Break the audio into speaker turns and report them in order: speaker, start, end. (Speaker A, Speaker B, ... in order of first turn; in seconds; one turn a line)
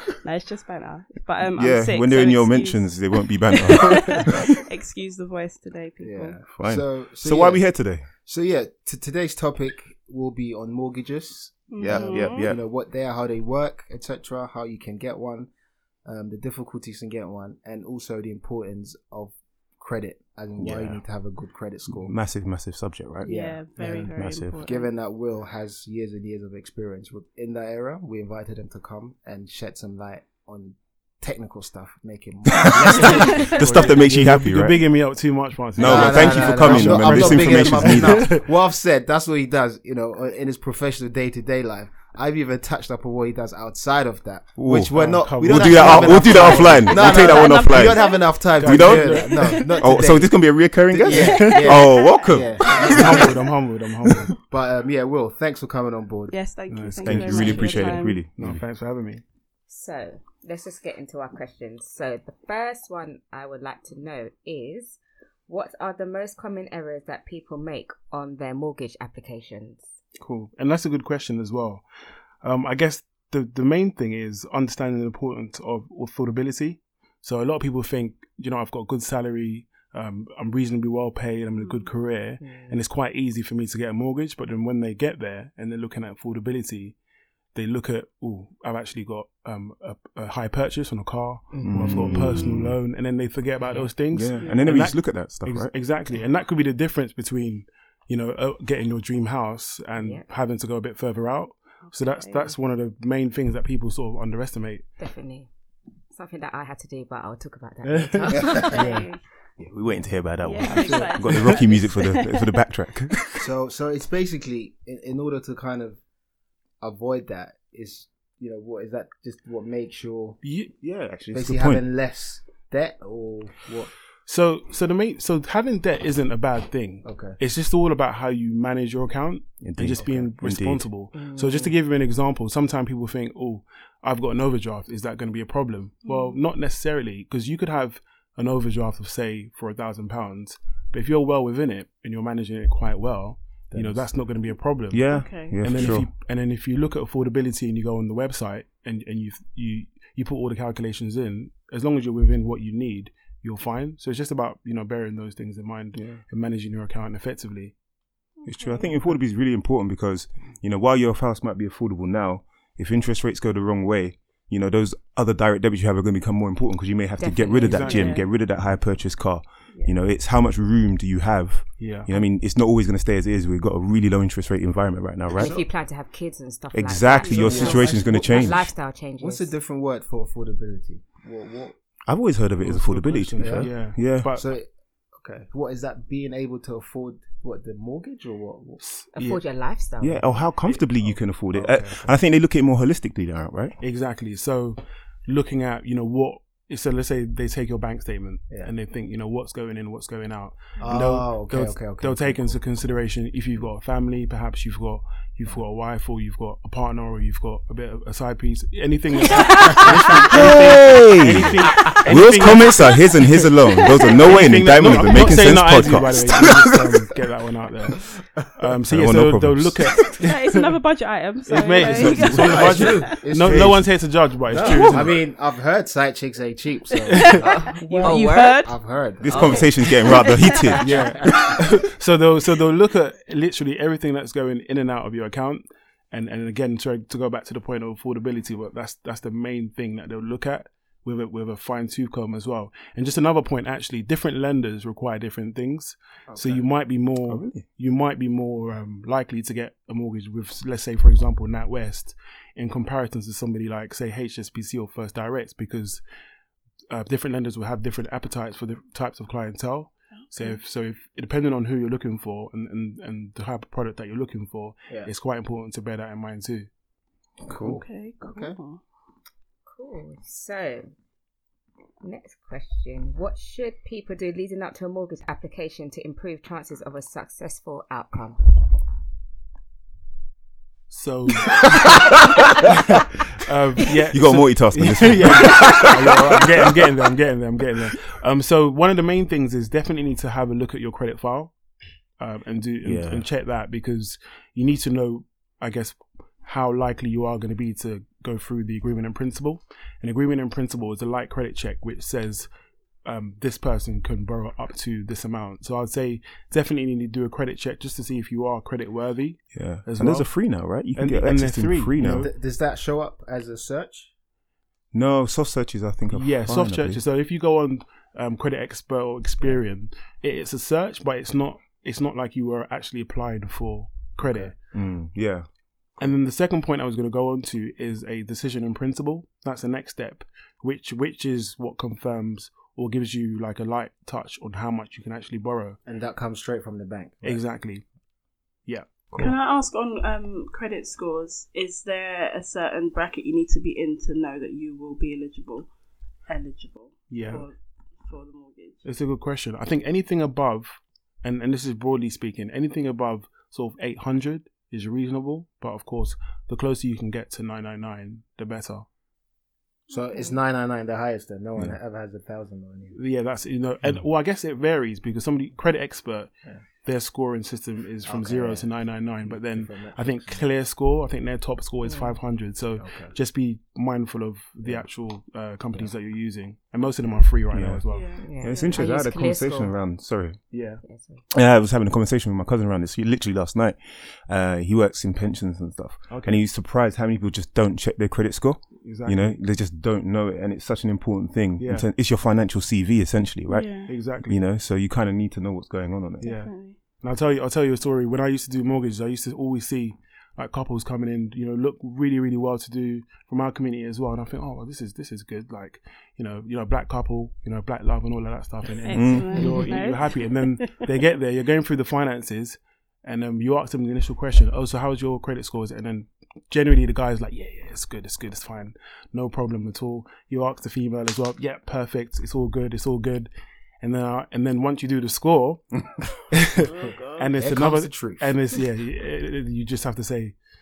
Speaker A: 0.2-6.4
Speaker B: 1.6-4.4
Speaker C: 6.0-15.5
Speaker B: 6.5-8.1
Speaker A: 11.7-12.5
Speaker B: 11.8-12.6
Speaker C: 16.1-22.2
Speaker B: 20.6-21.0
Speaker B: 21.9-24.6
Speaker A: 23.2-24.9
Speaker C: 23.3-33.9
Speaker D: 32.8-38.5
Speaker B: 33.2-34.8
Speaker B: 35.8-38.4
Speaker C: 35.8-50.4
Speaker B: 44.6-52.7
Speaker D: 44.9-47.3
Speaker A: 46.9-48.4
Speaker D: 48.6-49.6
Speaker A: 49.4-49.8
Speaker C: 50.9-53.3
Speaker A: 51.1-53.3
Speaker D: 51.1-51.7
Speaker D: 52.8-54.3
Speaker A: 54.1-54.4
Speaker C: 54.4-56.4
Speaker A: 56.3-58.2
Speaker D: 56.7-59.2
Speaker B: 57.0-58.6
Speaker E: 59.7-69.9
Speaker D: 70.2-71.8
Speaker D: 72.4-87.0
Speaker A: 81.6-81.9
Speaker E: 82.4-82.8
Speaker D: 87.5-104.8
Speaker E: 91.5-92.4
Speaker B: 91.6-92.8
Speaker E: 93.6-93.9
Speaker B: 94.1-95.7
Speaker A: 94.3-94.7
Speaker E: 100.0-100.2
Speaker A: 101.9-102.5
Speaker E: 105.0-105.5
Speaker E: 106.1-108.8
Speaker D: 107.8-109.1
Speaker C: 108.2-109.0
Speaker A: 108.5-109.2
Speaker B: 109.6-113.2
Speaker A: 110.4-112.6
Speaker C: 110.9-111.3
Speaker D: 110.9-111.6
Speaker C: 113.4-116.0
Speaker C: 116.8-120.4
Speaker D: 120.4-120.7
Speaker B: 120.8-121.8
Speaker C: 121.3-123.9
Speaker D: 124.3-157.7
Speaker C: 127.0-127.4
Speaker B: 129.6-130.8
Speaker E: 131.2-131.7
Speaker A: 136.0-136.4
Speaker C: 143.7-144.1
Speaker B: 144.9-146.1
Speaker A: 145.1-145.6
Speaker B: 156.0-156.2
Speaker A: 158.4-158.9
Speaker B: 158.5-175.5
Speaker E: 167.2-168.1
Speaker D: 167.6-168.2
Speaker A: 167.8-168.2
Speaker D: 171.8-172.1
Speaker C: 175.3-175.7
Speaker E: 175.3-179.5
Speaker B: 176.7-178.7
Speaker C: 177.3-181.8
Speaker A: 177.3-177.7
Speaker B: 182.1-184.3
Speaker D: 182.6-184.5
Speaker C: 183.4-183.7
Speaker C: 184.3-184.7
Speaker C: 185.2-188.8
Speaker D: 188.8-189.4
Speaker E: 189.1-190.3
Speaker B: 190.0-193.8
Speaker C: 191.5-192.1
Speaker D: 193.8-213.5
Speaker C: 200.8-202.6
Speaker A: 209.3-209.8
Speaker B: 210.3-217.0
Speaker A: 213.8-214.3
Speaker D: 214.1-220.7
Speaker B: 218.8-220.1
Speaker A: 220.2-223.3
Speaker D: 221.5-225.2
Speaker B: 221.8-222.5
Speaker C: 221.9-223.9
Speaker B: 223.4-223.8
Speaker C: 224.5-229.7
Speaker A: 227.0-228.8
Speaker E: 227.4-228.8
Speaker B: 229.2-230.9
Speaker E: 229.3-229.7
Speaker A: 229.3-231.4
Speaker D: 230.8-256.0
Speaker C: 246.3-246.7
Speaker B: 247.3-247.7
Speaker D: 256.9-266.7
Speaker C: 267.5-268.6
Speaker A: 267.6-268.8
Speaker E: 269.7-270.9
Speaker E: 272.0-278.5
Speaker D: 280.9-281.7
Speaker D: 283.4-291.5
Speaker B: 284.1-286.5
Speaker D: 292.2-302.5
Speaker B: 292.8-293.3
Speaker D: 303.1-312.3
Speaker B: 309.5-312.3
Speaker C: 312.0-314.1
Speaker B: 314.9-317.0
Speaker D: 316.1-324.6
Speaker C: 324.2-324.5
Speaker B: 324.7-325.5
Speaker D: 326.0-335.8
Speaker C: 335.9-337.4
Speaker D: 337.2-337.8
Speaker D: 338.7-339.1
Speaker A: 339.1-345.7
Speaker A: 346.3-348.9
Speaker D: 347.1-347.5
Speaker D: 348.9-358.9
Speaker C: 359.9-363.0
Speaker A: 359.9-360.4
Speaker D: 362.9-378.1
Speaker C: 368.1-368.7
Speaker C: 369.2-370.4
Speaker E: 371.9-372.2
Speaker C: 372.8-373.1
Speaker B: 377.5-380.4
Speaker A: 377.9-378.9
Speaker E: 378.2-379.7
Speaker D: 380.5-380.8
Speaker E: 380.8-381.2
Speaker B: 381.3-396.3
Speaker D: 386.1-386.4
Speaker D: 388.8-389.4
Speaker D: 391.6-391.9
Speaker A: 393.5-393.9
Speaker D: 393.9-394.4
Speaker A: 396.2-396.8
Speaker D: 396.2-423.3
Speaker A: 408.8-410.9
Speaker B: 408.9-409.4
Speaker D: 423.8-430.4
Speaker A: 426.6-427.2
Speaker C: 427.3-428.3